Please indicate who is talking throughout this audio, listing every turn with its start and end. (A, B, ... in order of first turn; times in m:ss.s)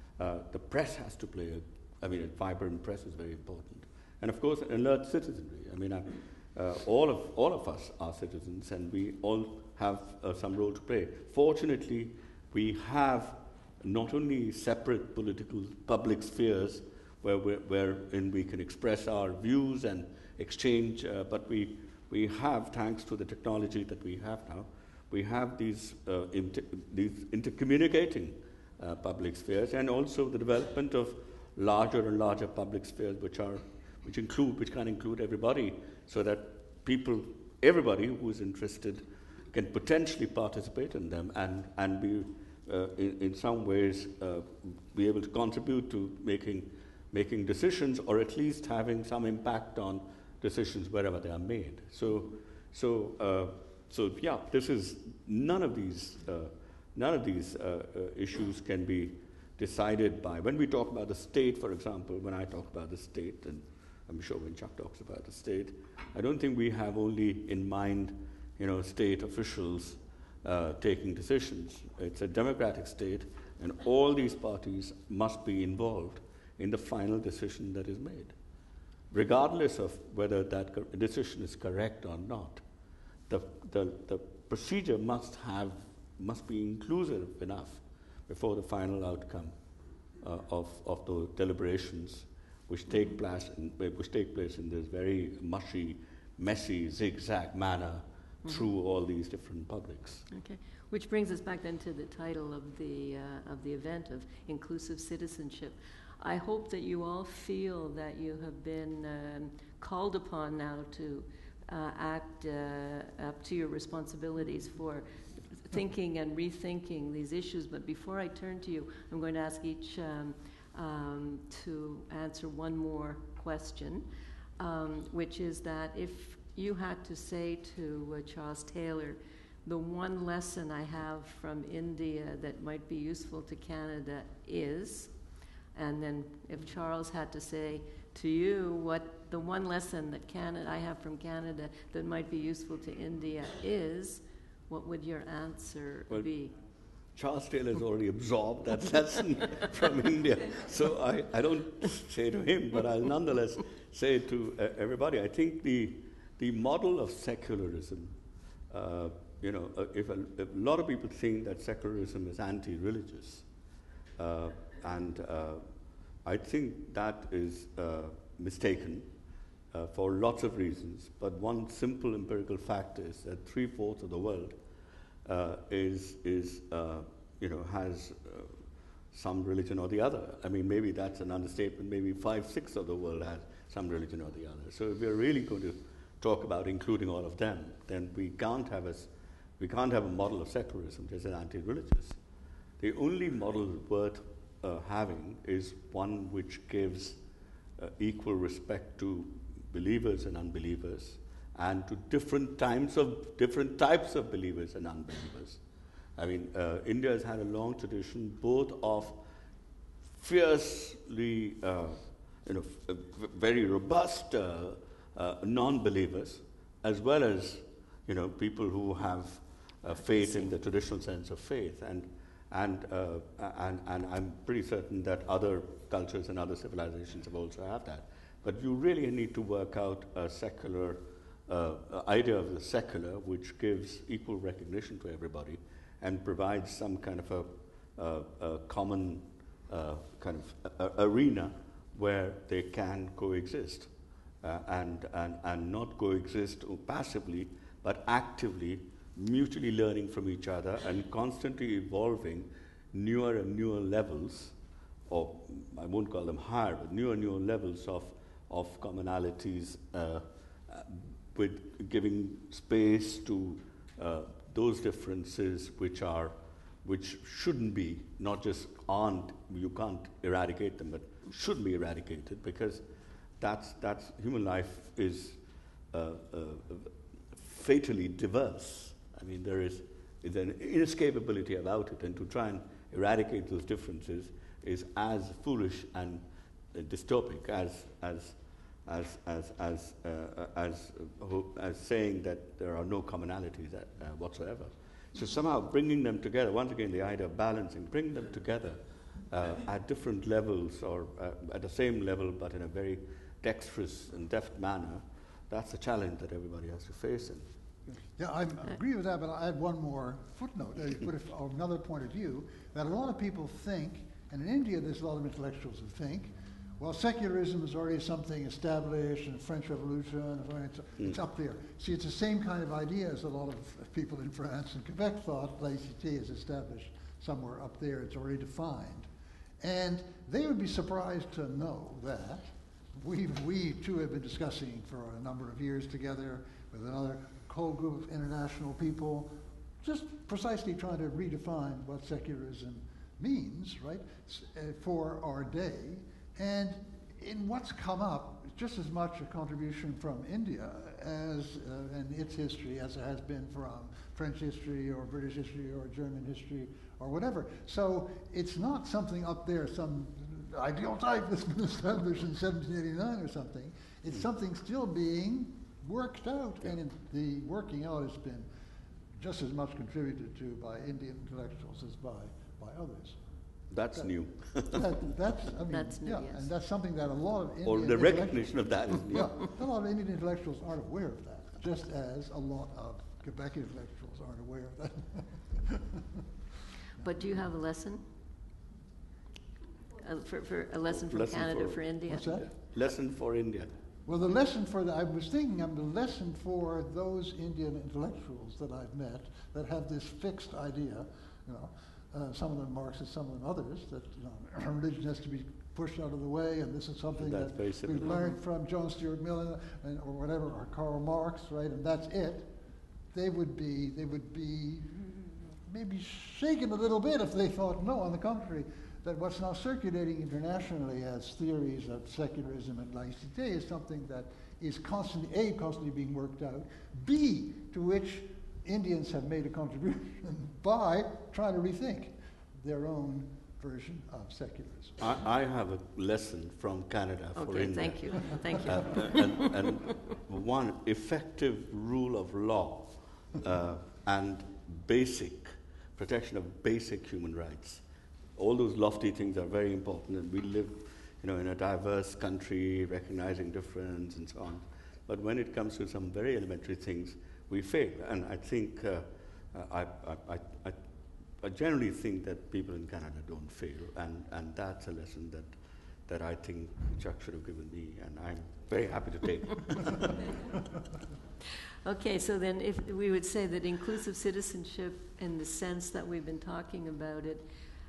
0:00.2-1:18.3 A
1:19.1-1:22.6 A
1:23.3-1:29.5 A
1:30.2-1:40.2 A
1:40.3-2:04.0 B
2:04.6-2:15.1 B
2:15.7-2:26.5 B
2:27.1-2:38.1 A
2:38.7-2:43.4 A
2:44.2-2:45.6 A
2:46.2-2:49.1 A
2:49.7-2:54.6 A
2:55.2-2:58.6 A
2:59.1-3:12.2 A
3:12.8-3:17.2 A
3:17.8-3:25.6 A
3:26.2-3:29.2 A
3:30.2-4:03.9 A
4:04.4-4:14.5 A
4:15.1-4:32.8 A
4:33.4-4:35.4 A
4:35.9-5:07.5 A
5:08.2-5:29.1 C
5:29.6-6:08.4 C
6:09.2-6:13.2 C
6:13.7-6:15.0 A
6:14.6-6:18.5 C
6:15.7-6:16.5 B
6:17.6-6:19.4 A
6:19.0-6:26.2 C
6:27.0-6:28.0 B
6:30.0-6:32.4 B
6:31.0-6:33.7 A
6:32.1-6:32.5 C
6:34.0-6:52.5 C
6:47.2-6:48.3 A
6:53.1-7:15.0 C
7:15.0-7:27.8 A
7:17.4-7:19.9 B
7:28.4-7:40.8 A
7:41.4-7:50.3 A
7:51.8-7:57.4 B